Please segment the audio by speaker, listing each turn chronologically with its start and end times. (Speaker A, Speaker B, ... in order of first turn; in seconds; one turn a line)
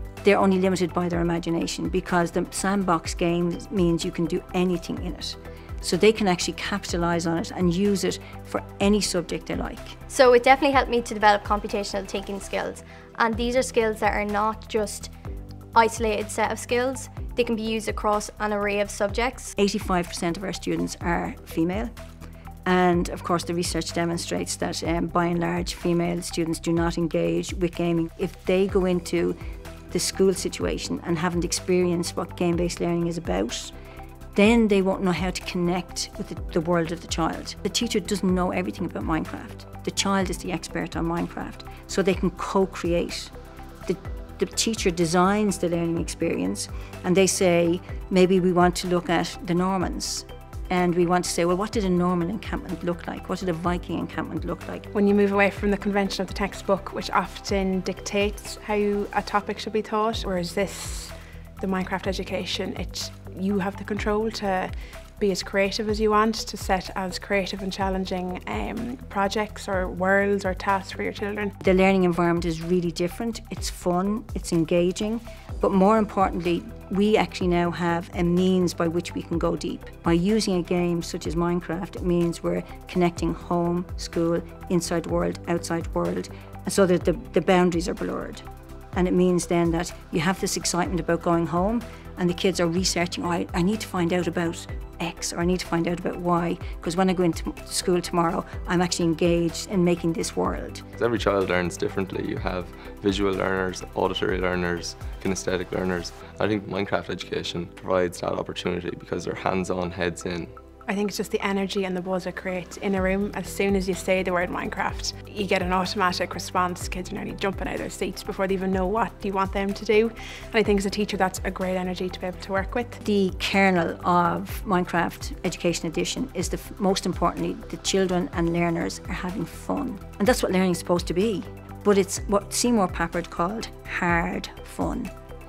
Speaker A: 0.2-10.0
Speaker B: 10.1-15.1
Speaker B: 15.8-19.6
Speaker A: 19.6-21.9
Speaker A: 22.7-29.4
Speaker A: 29.9-33.7
Speaker A: 34.4-43.3
Speaker A: 43.9-54.9
Speaker C: 54.9-71.5
Speaker A: 71.6-88.4
Speaker A: 89.0-100.8
Speaker D: 101.0-110.5
Speaker C: 110.9-123.0
Speaker A: 123.0-135.1